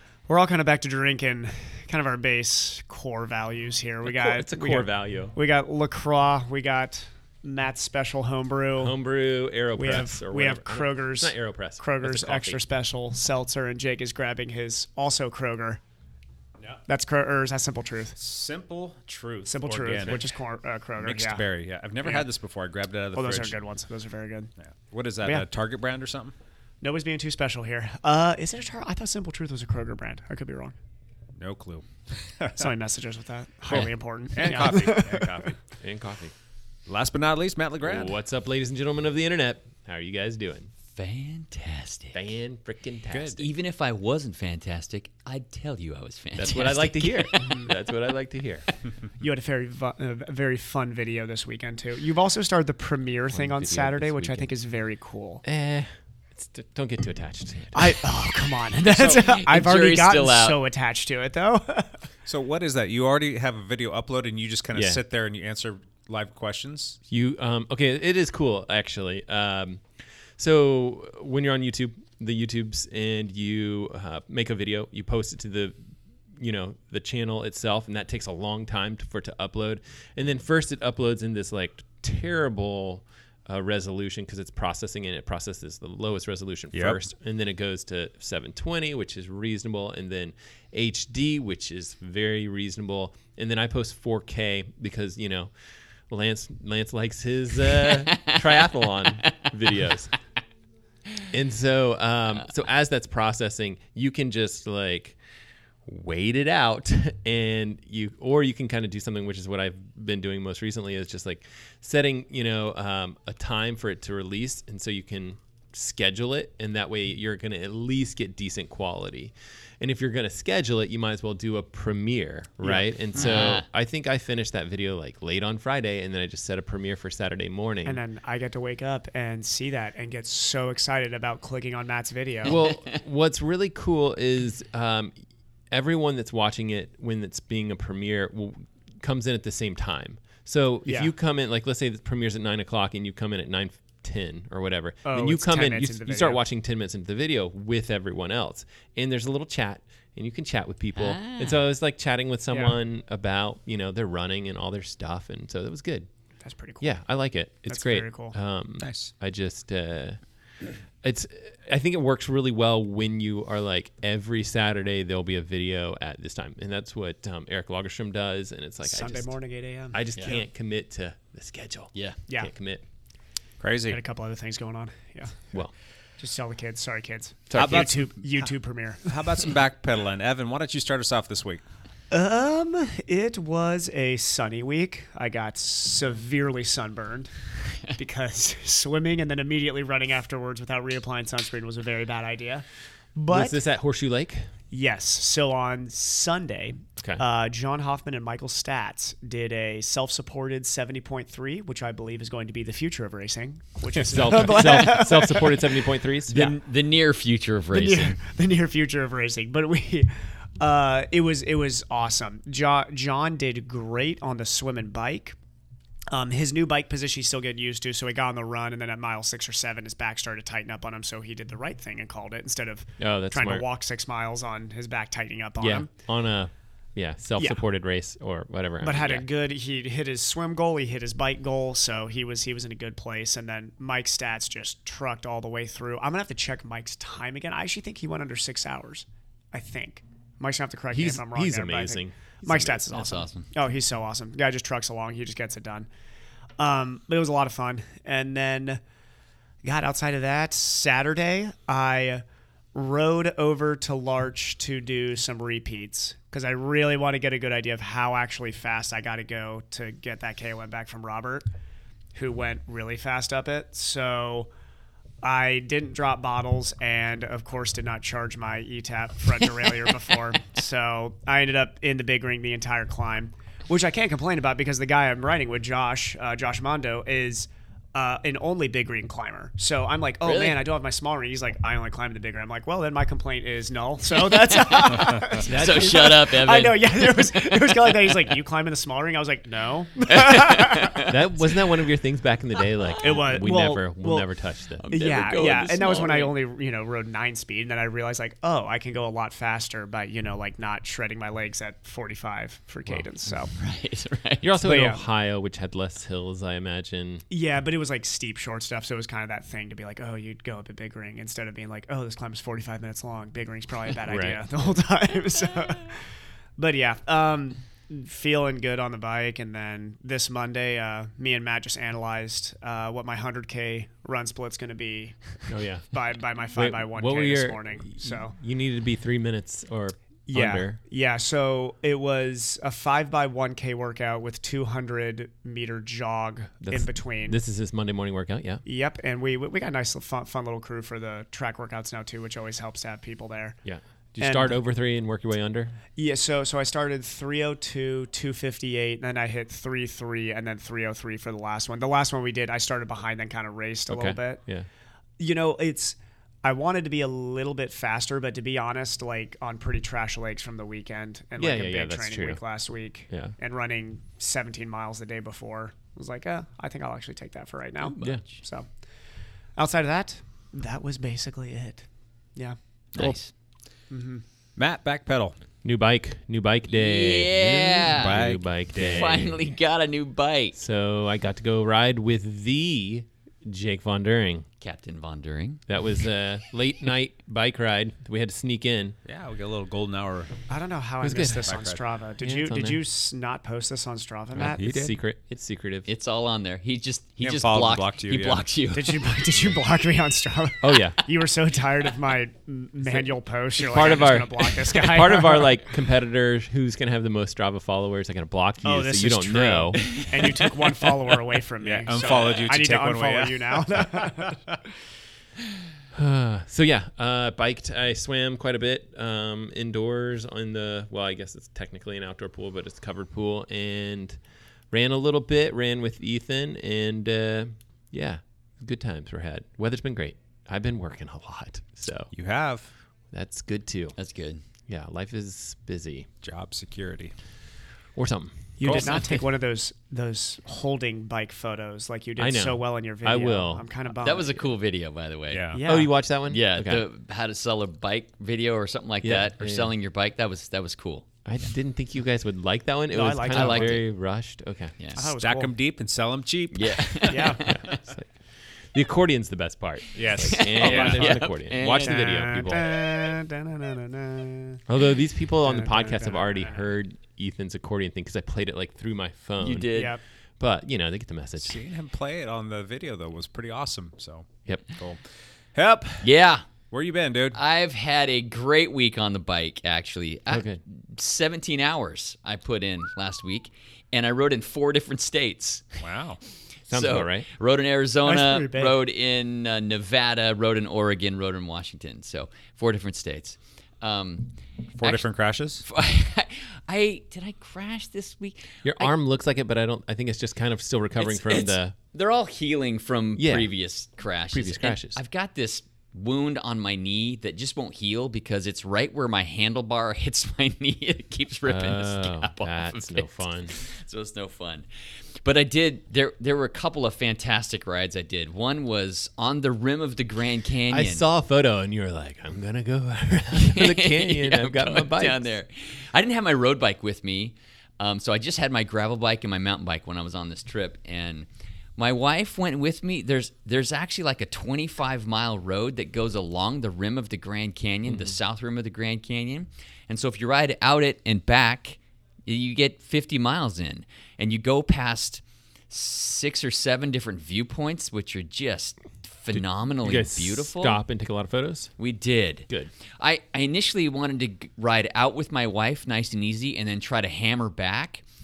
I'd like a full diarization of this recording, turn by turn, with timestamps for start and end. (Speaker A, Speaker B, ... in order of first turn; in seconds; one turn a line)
Speaker A: 0.3-8.9
Speaker B: 4.0-5.3
Speaker B: 8.8-12.6
Speaker A: 9.8-15.8
Speaker A: 16.9-18.1
Speaker C: 18.1-20.3
Speaker A: 19.4-21.4
Speaker C: 21.0-23.6
Speaker A: 22.0-22.3
Speaker A: 23.1-24.5
Speaker C: 24.6-26.3
Speaker A: 26.8-30.7
Speaker C: 31.4-32.7
Speaker A: 32.6-35.4
Speaker C: 34.3-35.5
Speaker B: 35.8-36.3
Speaker C: 36.9-38.2
Speaker B: 37.8-40.7
Speaker D: 40.9-42.1
Speaker B: 42.1-43.4
Speaker C: 43.1-43.4
Speaker D: 43.4-47.6
Speaker B: 46.4-48.7
Speaker A: 49.2-55.4
Speaker B: 53.3-54.5
Speaker B: 55.4-58.0
Speaker A: 57.7-61.9
Speaker D: 58.8-60.6
Speaker C: 62.2-67.0
Speaker B: 64.7-65.0
Speaker B: 67.1-69.8
Speaker B: 70.4-75.8
Speaker B: 76.4-95.5
Speaker C: 86.7-87.0
Speaker B: 96.1-100.1
Speaker D: 97.6-99.5
Speaker B: 101.3-105.2
Speaker B: 105.8-128.0
Speaker D: 123.1-123.7
Speaker A: 127.8-132.6
Speaker D: 132.4-132.9
Speaker B: 132.4-135.1
Speaker B: 135.7-156.1
Speaker A: 140.8-141.1
Speaker A: 145.1-146.4
Speaker D: 150.9-151.6
Speaker A: 152.5-152.8
Speaker A: 156.4-156.9
Speaker B: 156.8-160.2
Speaker A: 157.7-158.3
Speaker C: 158.8-159.1
Speaker B: 161.0-169.3
Speaker A: 168.8-170.3
Speaker B: 169.9-172.8
Speaker D: 170.2-170.4
Speaker D: 171.9-172.2
Speaker C: 173.6-174.0
Speaker A: 173.9-175.5
Speaker A: 176.2-179.1
Speaker B: 177.5-177.9
Speaker C: 177.5-178.5
Speaker C: 179.1-181.6
Speaker A: 182.1-187.3
Speaker A: 187.9-193.6
Speaker B: 193.3-194.4
Speaker A: 194.7-205.9
Speaker B: 203.9-206.5
Speaker D: 206.3-208.2
Speaker A: 207.7-215.3
Speaker A: 216.1-225.9
Speaker B: 223.0-223.6
Speaker B: 225.6-229.2
Speaker A: 228.8-245.9
Speaker B: 240.9-242.8
Speaker D: 242.9-243.5
Speaker A: 246.6-248.8
Speaker A: 249.6-261.4
Speaker A: 262.1-264.5
Speaker A: 265.2-291.1
Speaker D: 280.2-280.7
Speaker D: 284.1-288.4
Speaker B: 285.5-286.1
Speaker D: 290.1-291.2
Speaker B: 291.0-294.8
Speaker A: 293.0-294.3
Speaker D: 294.8-296.4
Speaker A: 294.9-303.5
Speaker D: 303.5-304.4
Speaker B: 304.4-307.2
Speaker A: 304.6-305.0
Speaker A: 307.3-316.0
Speaker B: 314.1-314.4
Speaker A: 316.6-328.4
Speaker B: 325.5-325.9
Speaker B: 326.5-330.8
Speaker A: 330.3-337.4
Speaker B: 336.6-338.6
Speaker A: 338.6-343.6
Speaker B: 343.6-345.8
Speaker A: 344.2-344.6
Speaker A: 345.9-354.4
Speaker B: 353.9-354.6
Speaker A: 355.2-368.7
Speaker B: 361.4-362.4
Speaker D: 367.8-368.4
Speaker A: 369.6-371.8
Speaker D: 372.9-373.3
Speaker A: 373.9-374.2
Speaker C: 374.6-375.4
Speaker B: 375.6-379.4
Speaker D: 376.7-380.6
Speaker C: 377.9-379.2
Speaker B: 380.5-384.4
Speaker D: 384.6-385.6
Speaker B: 385.7-389.0
Speaker C: 389.0-390.3
Speaker A: 390.5-394.6
Speaker B: 391.0-391.5
Speaker C: 391.4-391.8
Speaker B: 392.2-392.8
Speaker B: 394.4-395.9
Speaker C: 394.4-394.9
Speaker D: 395.9-399.2
Speaker C: 397.2-398.4
Speaker A: 398.7-405.5
Speaker B: 400.6-401.0
Speaker B: 403.6-409.9
Speaker A: 408.6-414.4
Speaker D: 409.9-410.5
Speaker C: 411.6-414.6
Speaker B: 415.9-424.2
Speaker B: 424.7-432.1
Speaker C: 432.1-432.7
Speaker B: 433.1-433.9
Speaker D: 433.9-434.4
Speaker B: 434.7-436.1
Speaker C: 436.2-437.1
Speaker B: 437.9-439.0
Speaker A: 438.6-444.5
Speaker B: 442.2-443.6
Speaker D: 443.9-445.6
Speaker C: 445.3-445.6
Speaker A: 445.5-445.9
Speaker B: 445.7-446.8
Speaker D: 446.2-451.1
Speaker B: 449.0-449.7
Speaker B: 451.2-454.7
Speaker A: 452.9-453.8
Speaker D: 453.3-453.8
Speaker D: 454.8-455.1
Speaker A: 454.9-455.5
Speaker C: 455.2-457.1
Speaker D: 456.5-457.8
Speaker A: 457.1-457.4
Speaker B: 457.5-458.1
Speaker B: 458.7-462.7
Speaker C: 459.9-461.1
Speaker D: 460.2-462.2
Speaker A: 460.6-460.9
Speaker A: 461.6-464.6
Speaker B: 464.7-469.7
Speaker A: 465.4-466.7
Speaker D: 469.4-470.0
Speaker A: 469.7-470.0
Speaker B: 470.4-471.6
Speaker C: 471.4-475.0
Speaker C: 475.5-476.1
Speaker D: 476.0-476.4
Speaker C: 476.7-477.4
Speaker D: 477.3-485.8
Speaker B: 480.3-480.6
Speaker C: 485.8-486.2
Speaker B: 486.7-487.3
Speaker D: 486.7-495.1
Speaker A: 488.0-488.8
Speaker C: 494.8-495.6
Speaker D: 495.6-498.9
Speaker B: 498.6-501.7
Speaker D: 501.0-514.7
Speaker B: 503.1-503.5
Speaker B: 504.3-505.0
Speaker B: 511.4-513.5
Speaker D: 515.2-521.0
Speaker B: 520.7-525.3
Speaker D: 523.3-550.8
Speaker B: 537.9-538.2
Speaker B: 549.3-551.7
Speaker D: 551.8-558.0